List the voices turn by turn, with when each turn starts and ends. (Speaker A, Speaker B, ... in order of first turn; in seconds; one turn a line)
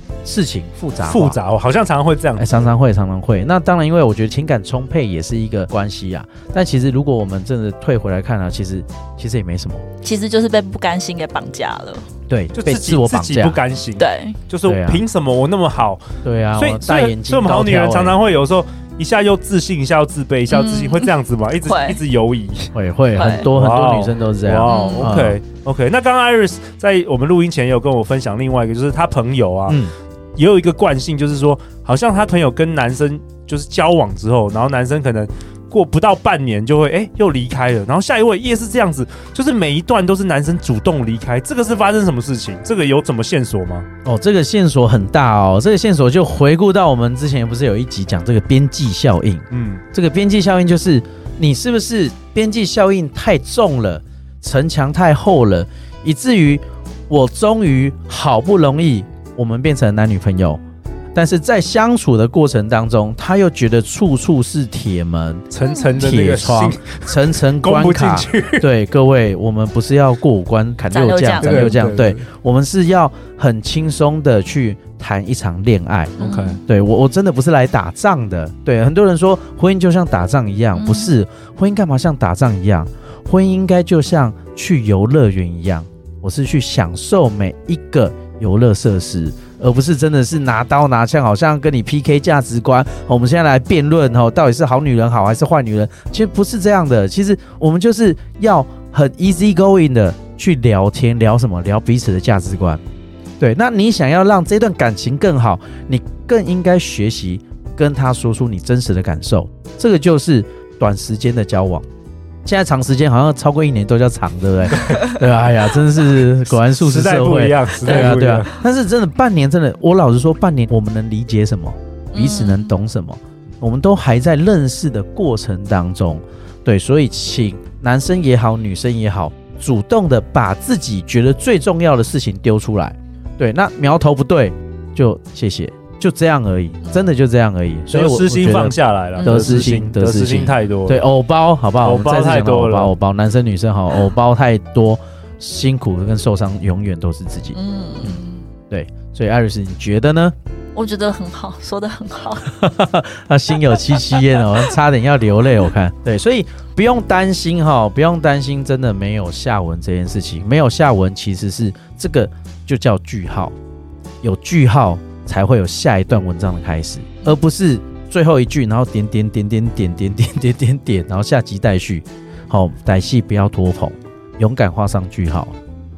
Speaker A: 0.2-1.4
Speaker B: 1.0-2.7
Speaker A: 2.4-9.8
Speaker C: 10.0-12.1
Speaker A: 12.3-13.6
Speaker B: 12.5-16.0
Speaker C: 14.0-14.4
Speaker A: 14.6-15.0
Speaker A: 16.2-18.2
Speaker B: 16.6-29.8
Speaker C: 20.5-21.1
Speaker C: 21.6-22.0
Speaker A: 22.7-25.4
Speaker C: 23.2-23.5
Speaker C: 24.6-25.1
Speaker B: 30.4-43.9
Speaker A: 44.0-60.6
Speaker B: 49.5-49.8
Speaker A: 61.1-102.8
Speaker B: 65.5-68.7
Speaker C: 65.6-66.1
Speaker C: 70.9-71.8
Speaker B: 71.4-72.2
Speaker B: 76.2-76.6
Speaker C: 76.2-76.6
Speaker C: 80.8-81.1
Speaker A: 103.4-111.8
Speaker A: 112.4-148.2
Speaker B: 114.7-115.2
Speaker B: 116.5-118.5
Speaker C: 117.9-118.2
Speaker C: 122.1-122.7
Speaker B: 137.9-141.0
Speaker C: 139.2-139.6
Speaker B: 141.8-142.9
Speaker C: 147.5-148.4
Speaker A: 148.7-150.3
Speaker C: 150.7-152.5
Speaker A: 152.4-163.5
Speaker C: 154.0-154.4
Speaker A: 164.2-175.5